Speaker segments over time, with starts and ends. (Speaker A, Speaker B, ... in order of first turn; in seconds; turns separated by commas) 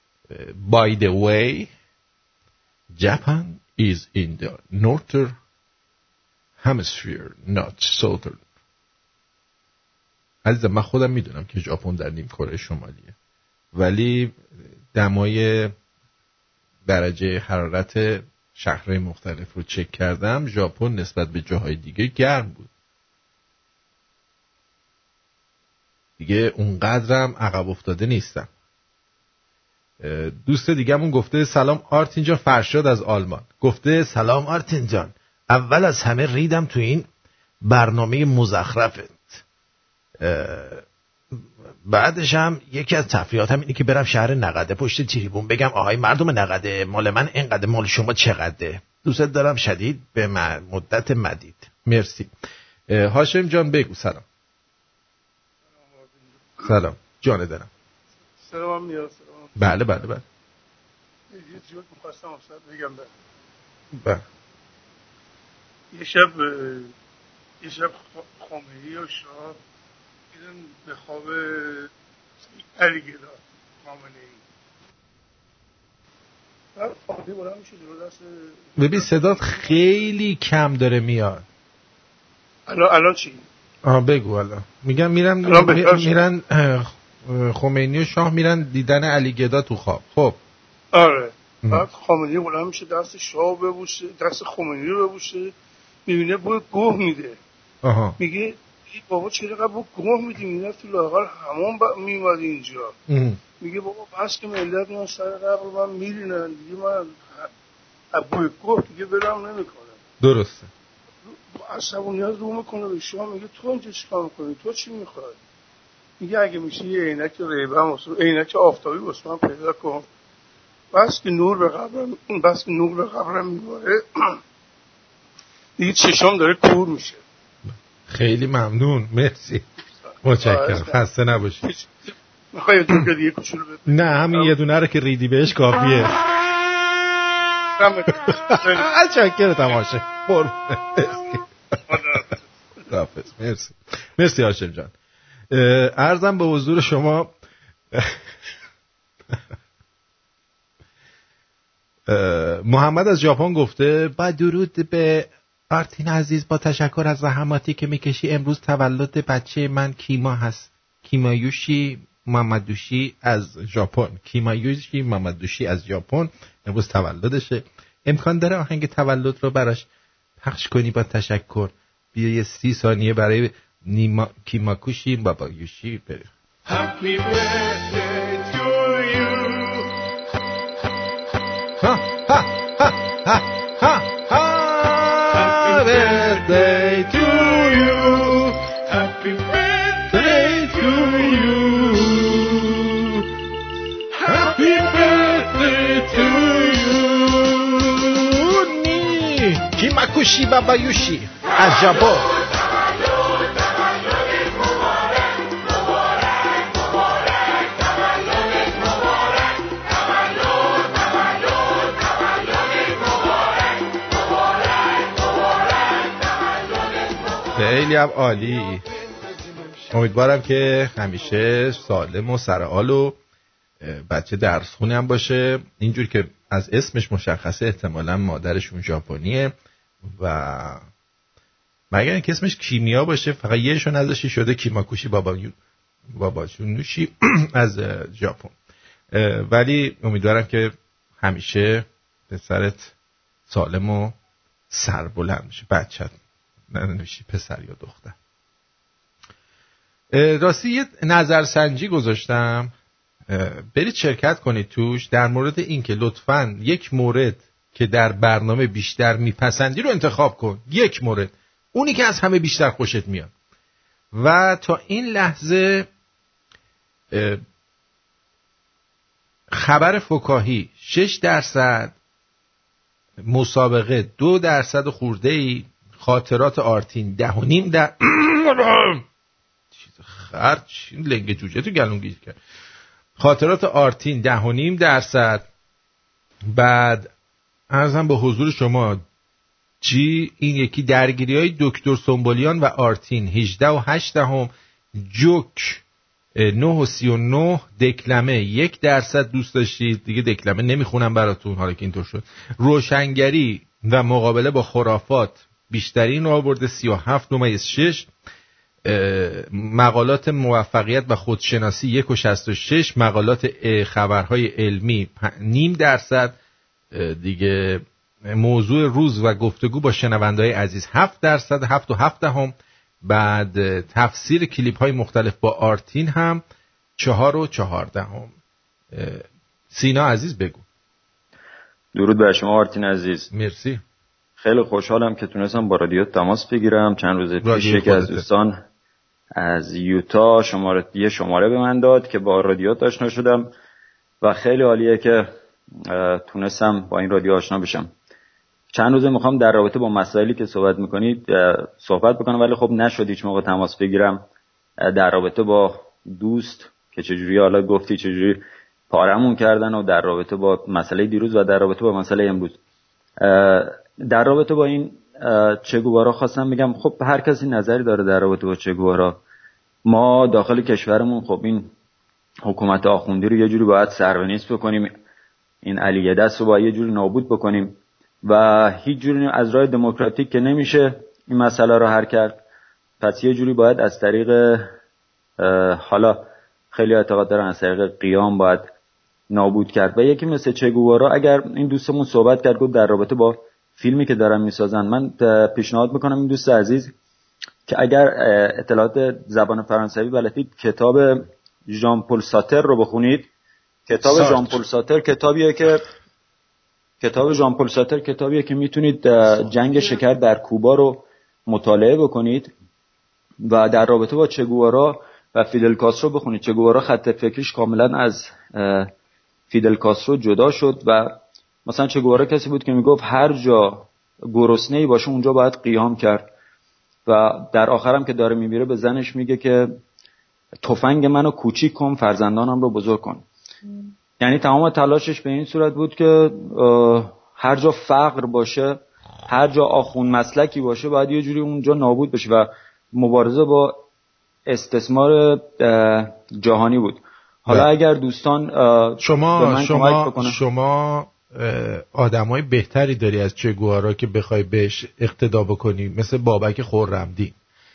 Speaker A: 0.3-1.7, Speaker A: 2.9-5.3, Speaker A: 6.6-8.4, Speaker A: 10.4-13.1, Speaker A: 13.7-14.4, Speaker A: 14.9-15.7, Speaker A: 16.9-22.7, Speaker A: 26.2-28.5, Speaker A: 30.0-37.1, Speaker A: 37.6-39.4, Speaker A: 40.2-52.3, Speaker A: 52.9-54.2, Speaker B: 55.7-56.7, Speaker A: 56.6-57.7, Speaker B: 58.4-59.6, Speaker A: 59.6-60.2, Speaker B: 61.3-63.1, Speaker A: 63.9-64.2, Speaker B: 65.9-66.9, Speaker B: 67.6-69.6, Speaker B: 70.3-71.9, Speaker B: 72.5-74.4, Speaker B: 76.8-80.1, Speaker A: 78.8-81.5, Speaker B: 82.7-83.4, Speaker A: 83.8-90.4, Speaker B: 85.5-86.1, Speaker B: 90.9-95.5, Speaker B: 96.1-97.4, Speaker A: 97.8-98.2, Speaker B: 98.2-102.9, Speaker A: 103.1-103.4, Speaker B: 103.6-107.5, Speaker B: 108.1-110.0, Speaker A: 110.2-110.7, Speaker B: 111.2-115.4, Speaker B: 116.2-120.0, Speaker B: 120.9-124.3, Speaker B: 125.8-127.2, Speaker A: 127.7-129.6, Speaker A: 130.2-131.7, Speaker B: 130.4-131.0, Speaker B: 131.6-134.5, Speaker A: 133.9-136.1, Speaker B: 137.8-138.9, Speaker A: 138.5-141.4, Speaker B: 141.9-142.4, Speaker A: 142.9-144.9, Speaker A: 145.5-147.3, Speaker A: 152.1-169.9, Speaker A: 170.4-179.8, Speaker A: 181.8-193.2, Speaker A: 194.2-202.3, Speaker A: 217.6-218.8, Speaker A: 219.9-223.2, Speaker A: 223.8-229.5, Speaker A: 230.1-230.8, Speaker A: 231.9-235.5, Speaker A: 236.1-238.5, Speaker A: 239.1-242.9, Speaker A: 243.5-244.2, Speaker A: 244.7-246.1, Speaker A: 246.7-248.1, Speaker A: 250.1-252.7, Speaker A: 253.3-263.3, Speaker A: 264.1-265.9, Speaker A: 267.1-267.4, Speaker A: 269.5-271.9, Speaker A: 273.2-279.0, Speaker A: 279.8-282.4, Speaker A: 283.2-285.5, Speaker A: 286.5-287.1, Speaker A: 287.7-289.0, Speaker A: 289.8-295.8, Speaker A: 296.4-308.1, Speaker A: 308.9-316.4, Speaker A: 316.9-322.5, Speaker A: 323.1-326.4, Speaker A: 327.0-328.3, Speaker A: 328.9-330.6, Speaker C: 331.9-333.3, Speaker A: 333.3-333.8, Speaker C: 334.4-338.6, Speaker A: 337.4-338.2, Speaker C: 339.4-343.5, Speaker C: 344.2-345.3, Speaker C: 345.8-347.9, Speaker C: 348.7-354.2, Speaker C: 354.8-362.6, Speaker C: 363.2-369.2, Speaker C: 369.9-371.7, Speaker C: 372.4-374.9, Speaker C: 375.6-382.4, Speaker C: 383.0-384.7, Speaker C: 385.4-388.7, Speaker C: 389.3-396.9, Speaker C: 397.7-403.3, Speaker C: 403.9-405.8, Speaker A: 404.1-404.6, Speaker C: 407.0-412.5, Speaker A: 409.2-410.0, Speaker C: 413.5-418.9, Speaker C: 419.5-421.1, Speaker C: 421.6-426.3, Speaker C: 427.1-429.7, Speaker C: 430.6-433.2, Speaker C: 434.2-443.8, Speaker C: 444.5-450.4, Speaker A: 449.0-457.3